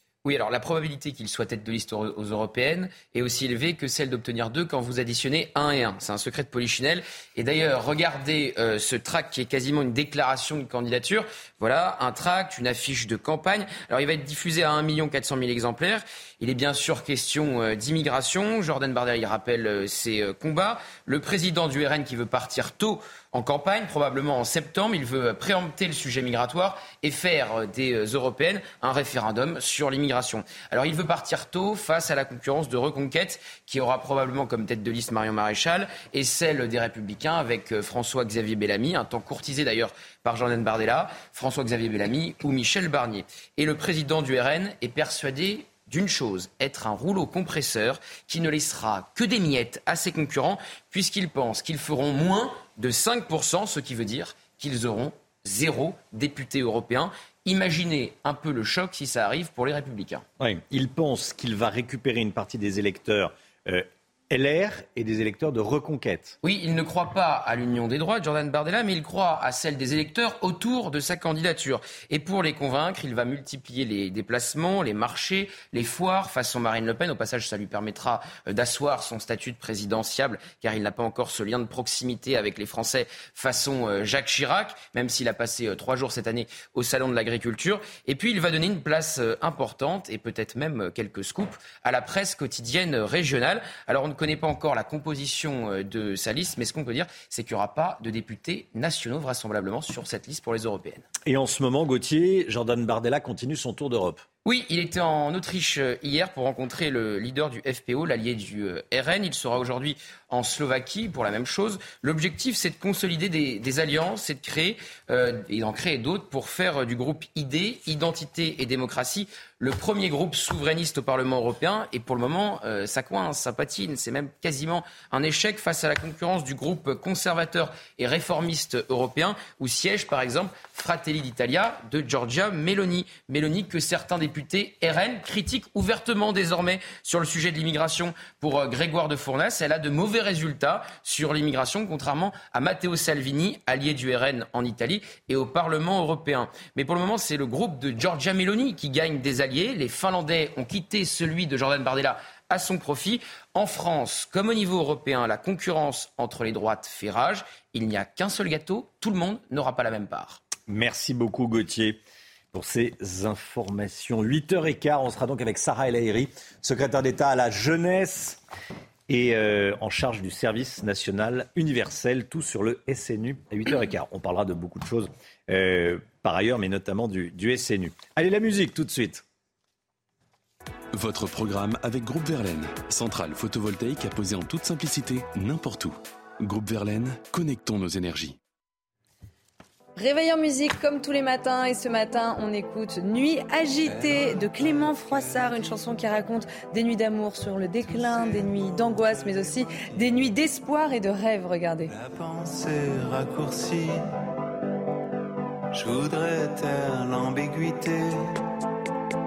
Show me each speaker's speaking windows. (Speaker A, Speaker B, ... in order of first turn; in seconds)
Speaker A: 0.2-60.2, 66.4-101.1, 104.5-160.4
Speaker B: 60.4-66.4, 101.2-104.2, 160.7-162.0, 162.5-168.4, 169.1-179.2
Speaker C: 180.9-188.4
Speaker D: 190.0-201.9
Speaker E: 193.8-195.8, 197.8-199.9, 201.9-204.1, 205.7-208.4